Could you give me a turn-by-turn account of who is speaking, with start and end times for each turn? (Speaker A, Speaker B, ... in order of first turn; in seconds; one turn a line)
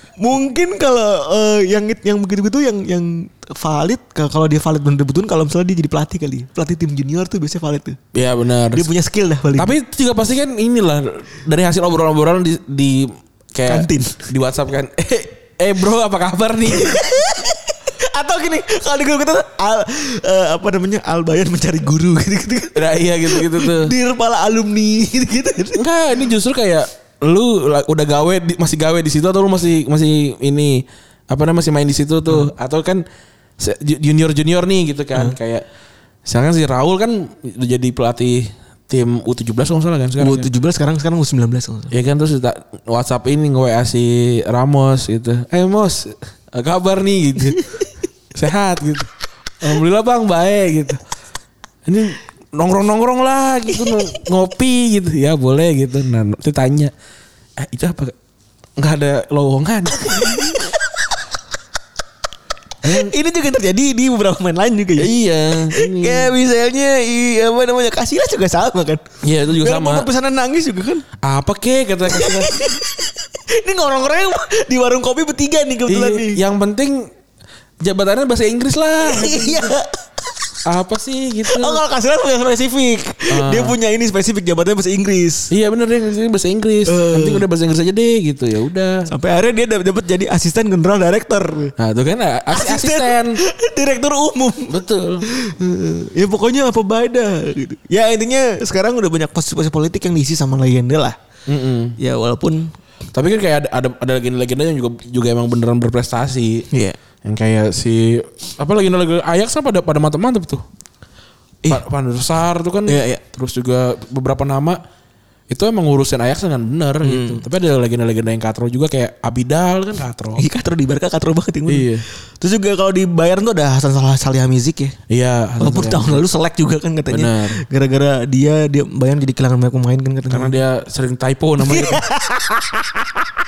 Speaker A: 0.2-8.0
Speaker B: 8.1-8.9
Speaker A: 8.7-9.7
Speaker B: 9.6-17.2
Speaker A: 13.7-14.3
Speaker A: 16.7-25.8
Speaker B: 22.7-23.9
Speaker B: 25.7-33.0
Speaker B: 33.6-35.6
Speaker B: 36.3-40.5
Speaker A: 40.2-41.9
Speaker B: 41.9-47.7
Speaker B: 48.3-49.1
Speaker B: 49.6-51.0
Speaker B: 51.9-56.9
Speaker B: 57.6-58.1
Speaker B: 58.8-60.5
Speaker A: 60.0-60.6
Speaker B: 62.8-63.1
Speaker A: 62.8-71.0
Speaker B: 65.0-66.3
Speaker B: 69.2-70.1
Speaker B: 71.2-72.7
Speaker A: 72.1-76.4
Speaker B: 75.9-77.1
Speaker B: 77.8-79.7
Speaker A: 79.0-80.1
Speaker B: 80.7-81.8
Speaker A: 81.5-85.5
Speaker B: 83.3-83.7
Speaker B: 85.5-89.1
Speaker A: 86.9-87.5
Speaker A: 89.1-91.7
Speaker B: 91.8-93.4
Speaker A: 92.5-101.2
Speaker B: 94.7-95.3
Speaker B: 101.5-102.0
Speaker A: 102.0-102.7
Speaker B: 103.1-106.7
Speaker A: 106.7-107.0
Speaker B: 107.2-110.6
Speaker B: 111.7-114.8
Speaker A: 112.9-113.2
Speaker B: 115.5-120.4
Speaker A: 117.0-117.4
Speaker A: 120.4-125.0
Speaker B: 121.7-122.0
Speaker B: 125.1-126.2
Speaker A: 125.6-130.6
Speaker B: 127.1-127.6
Speaker B: 130.3-132.1
Speaker A: 131.6-133.2